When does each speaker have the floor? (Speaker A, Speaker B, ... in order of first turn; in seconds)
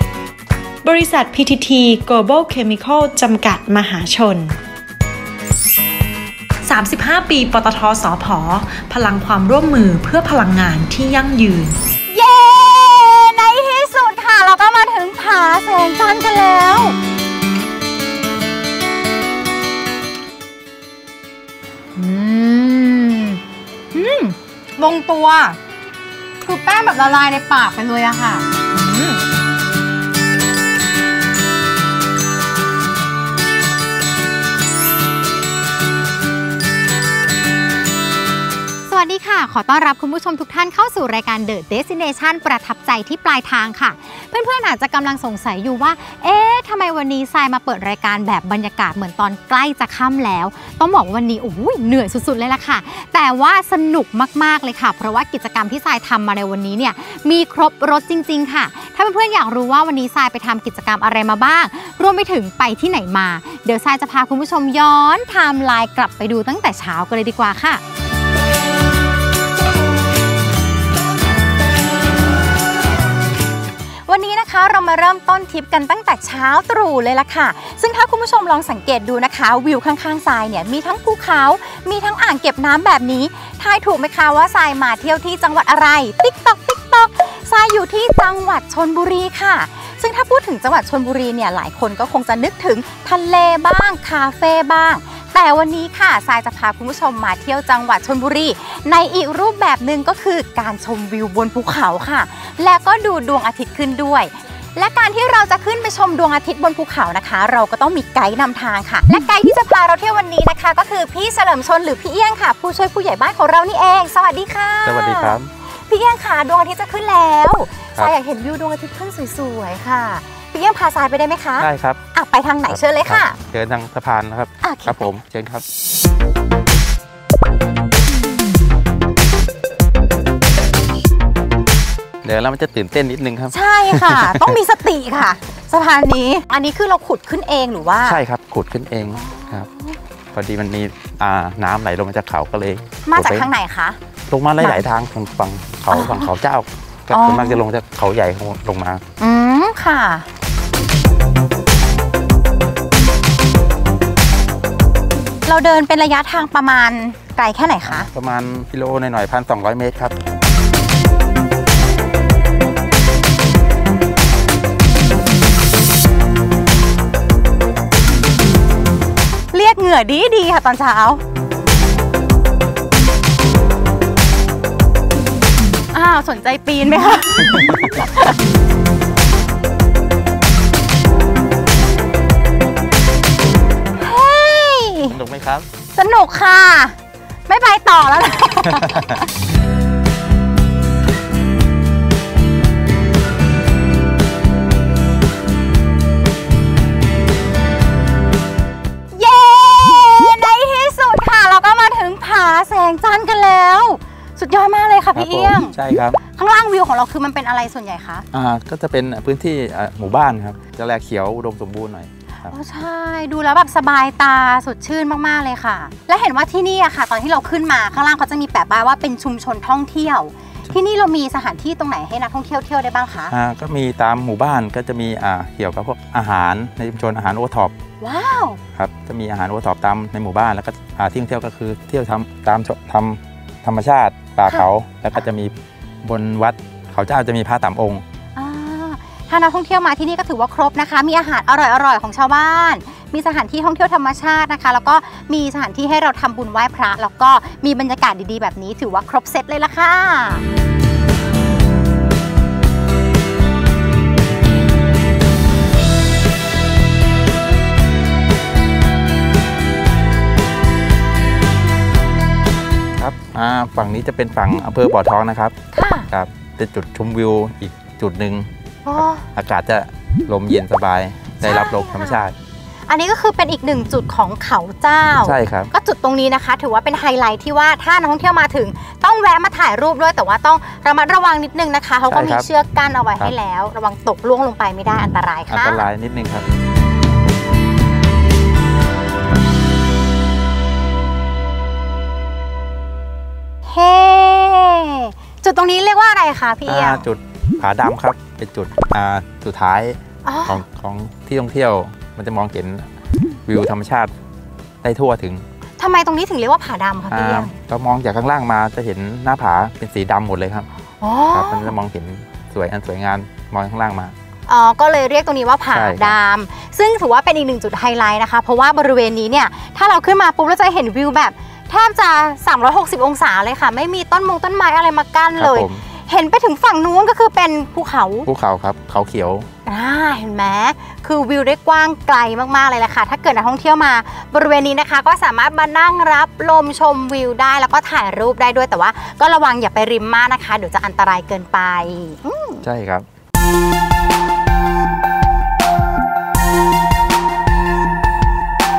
Speaker A: 0.8-4.6, 6.6-11.8
Speaker B: 12.1-17.0, 22.0-23.4, 23.9-25.6, 26.4-29.2, 38.9-67.8, 74.1-123.4, 124.6-125.1, 133.5-138.2, 139.2-140.0, 143.1-144.0, 145.9-146.3, 147.1-147.6, 149.2-150.3, 155.4-158.1, 169.5-171.2, 175.9-178.3, 184.0-185.2, 185.9-187.0, 187.5-189.3, 199.1-208.3, 212.5-223.3, 228.0-228.6, 238.4-250.4, 265.7-266.1, 268.9-269.3, 271.4-272.3, 272.9-285.8, 293.7-297.1, 300.2-300.6, 305.8-307.5, 311.0-311.7, 314.5-328.3, 329.7-342.6
Speaker C: 114.8-115.5, 121.6-122.0, 122.7-125.6, 132.2-134.6, 138.1-139.7, 140.3-143.5, 144.3-149.0, 157.9-160.2, 177.4-178.0, 185.1-185.7, 205.2-206.2, 208.3-212.5, 223.3-227.8, 228.8-235.5, 236.0-238.0, 263.0-265.6, 266.1-268.5, 269.4-272.4, 275.2-275.7, 282.1-282.5, 285.5-286.4, 296.7-302.9, 303.5-304.1, 304.8-305.4, 307.1-310.7, 311.3-314.1, 315.7-316.1, 325.4-325.8, 328.3-329.5, 342.6-343.1